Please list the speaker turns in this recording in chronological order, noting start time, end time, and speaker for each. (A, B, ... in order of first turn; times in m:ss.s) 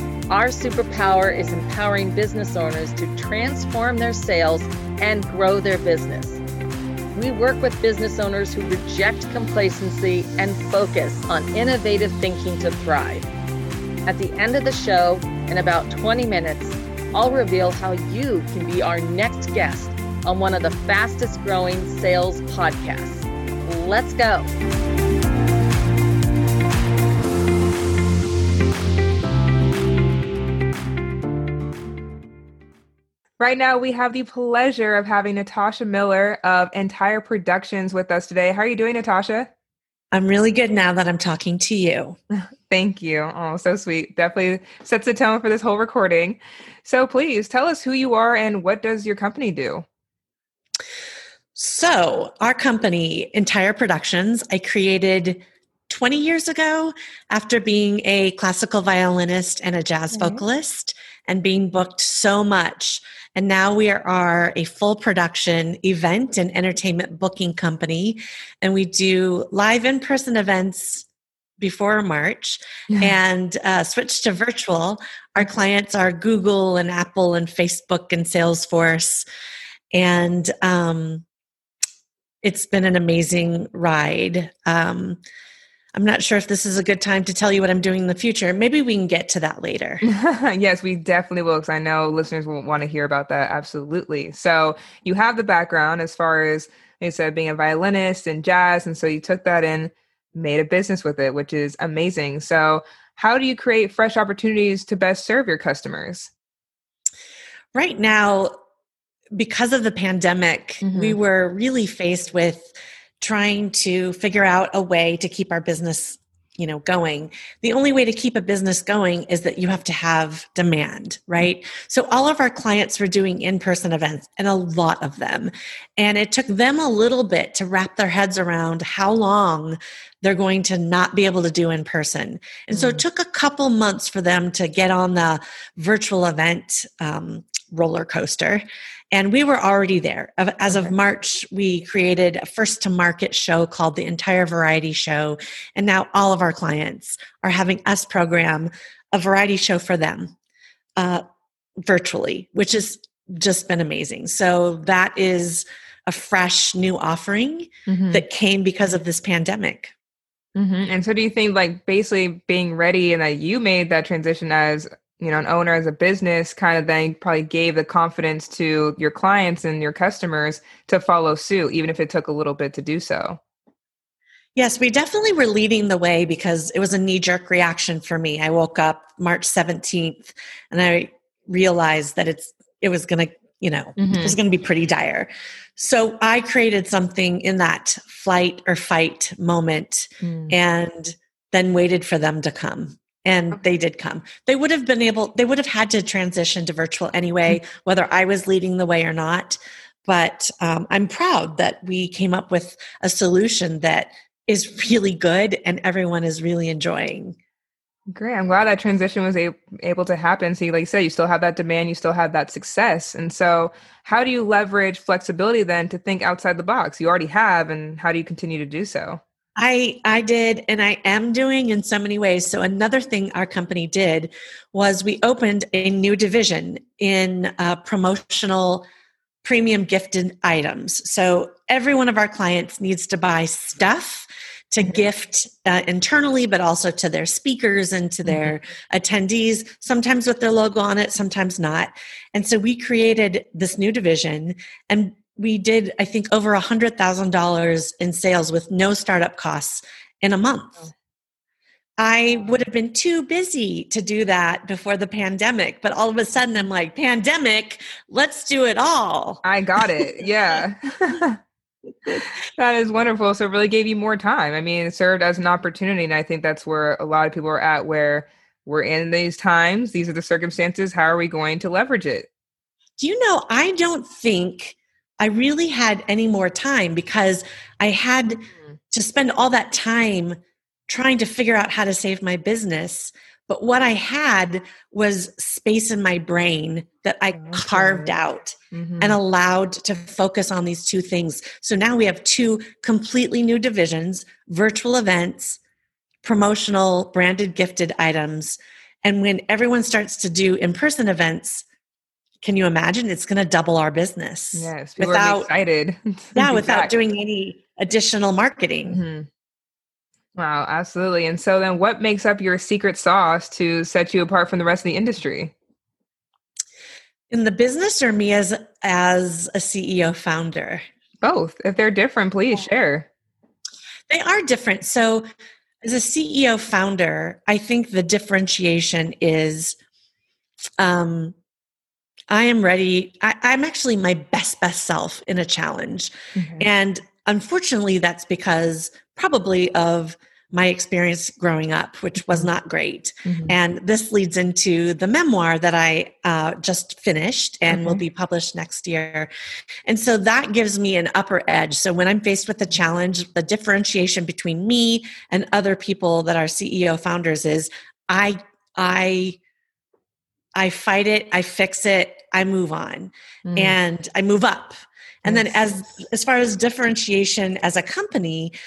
0:00.3-0:06.4 A
0:07.1-0:13.3 A
0:14.1-0:24.5 A
0:33.4-0:39.5 B
0:40.1-0:42.2 C
0:42.7-0:49.8 B
0:51.6-1:11.1 C
1:00.1-1:00.4 B
1:11.6-1:19.3 C
1:19.9-1:21.2 C
1:22.4-1:25.2 C
1:26.0-1:30.0 C
1:30.0-1:46.3 B
1:47.7-1:48.5 C
1:49.4-2:30.3 C
1:50.8-1:51.2 B
2:12.7-2:13.0 B
2:31.0-2:31.2 C
2:31.8-2:39.9 C
2:37.9-2:38.3 B
2:40.6-2:53.4 B
2:54.6-3:27.4 C
3:04.0-3:04.4 B
3:10.2-3:10.6 B
3:28.1-3:39.2 B
3:39.6-3:48.8 C
3:49.4-4:10.9 C
3:58.2-3:58.6 B
4:12.0-4:19.4 C
4:19.4-4:21.4 B
4:22.1-4:32.3 B
4:33.0-4:55.6 C
4:47.3-4:48.2 B
4:48.7-4:49.2 B
4:56.2-5:01.6 C
5:02.4-5:05.5 C
5:04.6-5:06.9 B
5:06.4-5:09.0 C
5:08.9-5:09.3 B
5:10.4-5:15.5 B
5:17.3-5:20.8 C
5:21.2-5:23.1 B
5:24.1-5:25.2 C
5:25.8-5:29.8 C
5:30.8-5:31.4 C
5:32.3-5:49.3 C
5:36.4-5:36.7 B
5:43.3-5:43.6 B
5:47.7-5:48.0 B
5:49.9-5:59.4 C
6:00.6-6:08.5 C
6:03.4-6:03.8 B
6:05.3-6:05.7 B